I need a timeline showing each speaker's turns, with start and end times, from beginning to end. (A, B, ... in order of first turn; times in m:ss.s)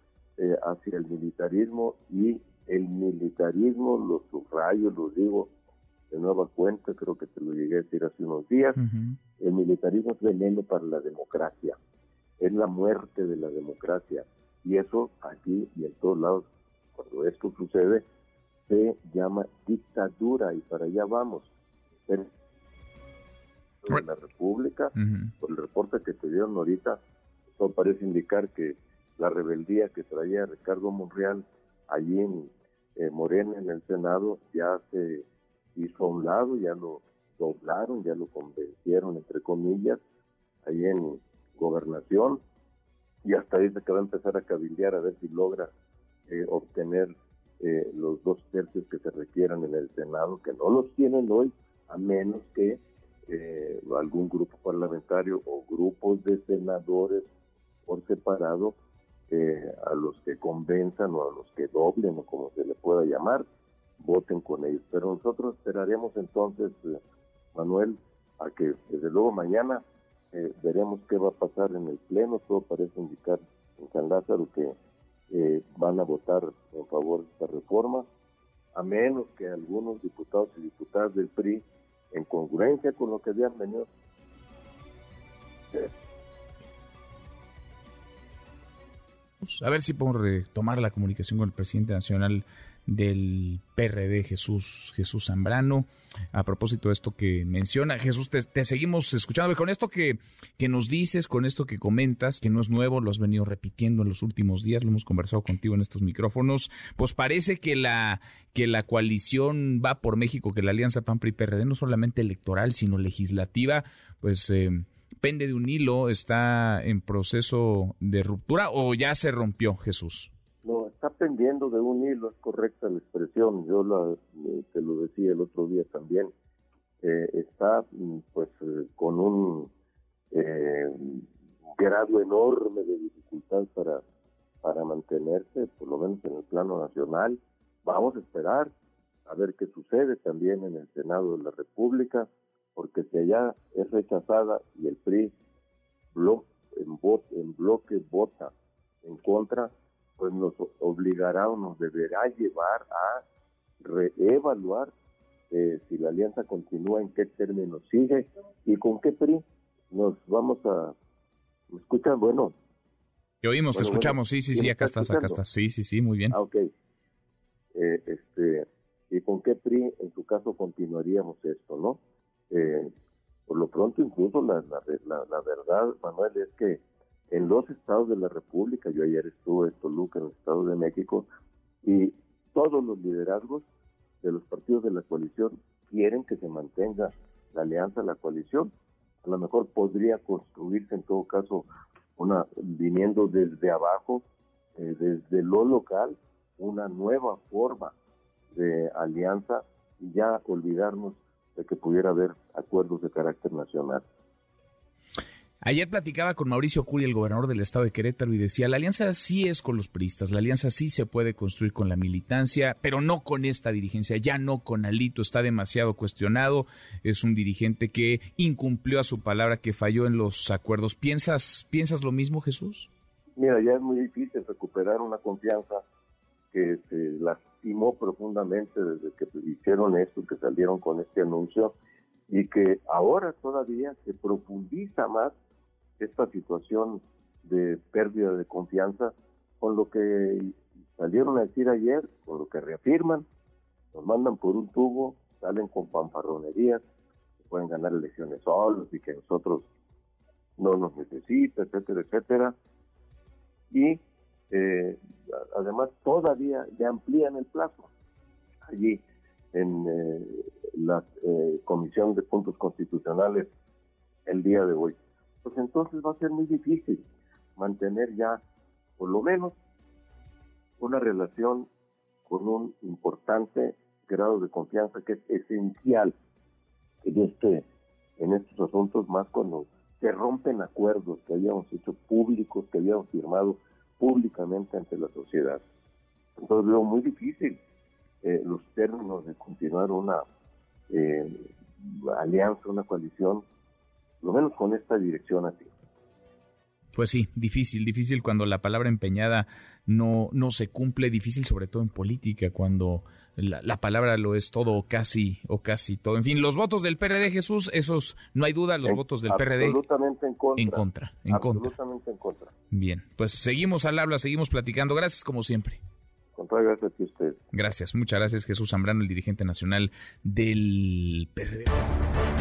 0:00.4-0:05.5 A
0:06.1-0:08.8 A
0:08.8-0:09.2 B
0:09.4-0:11.8 A
0:12.4-0:18.0 A
0:18.7-0:21.5 A
0:23.8-0:27.0 A
0:25.0-0:25.3 B
0:27.6-0:40.0 A
0:40.6-0:42.4 A
0:43.2-0:45.7 A
0:46.3-0:57.3 A
0:57.8-0:58.7 A
0:59.3-1:03.4 A
1:04.0-1:07.0 A
1:07.5-1:14.8 A
1:15.3-1:18.1 A
1:18.7-1:23.9 A
1:29.4-2:00.3 B
2:00.6-2:06.3 A
2:07.0-2:09.7 A
2:10.3-2:14.0 A
2:14.6-2:18.7 A
2:19.2-2:25.3 A
2:26.1-2:28.5 A
2:29.0-2:33.2 A
2:33.8-2:34.9 A
2:35.5-2:40.9 A
2:41.7-2:42.5 A
2:43.4-2:46.4 B
2:43.7-2:45.4 A
2:46.3-2:46.7 A
2:47.7-2:52.9 A
2:53.5-3:01.3 A
3:01.8-3:03.6 A
3:04.2-3:08.7 A
3:09.2-3:14.2 A
3:14.8-3:17.9 A
3:18.5-3:24.0 A
3:25.6-3:42.9 B
3:43.4-3:45.8 A
3:46.5-3:51.7 A
3:52.3-3:55.3 A
3:56.0-4:03.2 A
4:03.9-4:06.8 A
4:07.5-4:09.7 A
4:10.6-4:12.5 A
4:13.7-4:17.9 A
4:18.7-4:19.0 A
4:19.5-4:23.5 A
4:24.2-4:27.0 A
4:27.6-4:28.4 A
4:29.0-4:29.5 A
4:30.8-4:31.7 A
4:32.3-4:36.1 A
4:37.0-4:37.6 A
4:38.2-4:45.6 A
4:46.4-4:47.6 A
4:48.2-4:50.2 A
4:50.9-4:53.4 A
4:54.2-4:55.7 A
4:56.9-5:09.8 B
5:08.8-5:12.5 A
5:10.6-5:11.7 B
5:12.7-5:15.8 B
5:16.3-5:17.4 A
5:17.5-5:21.7 B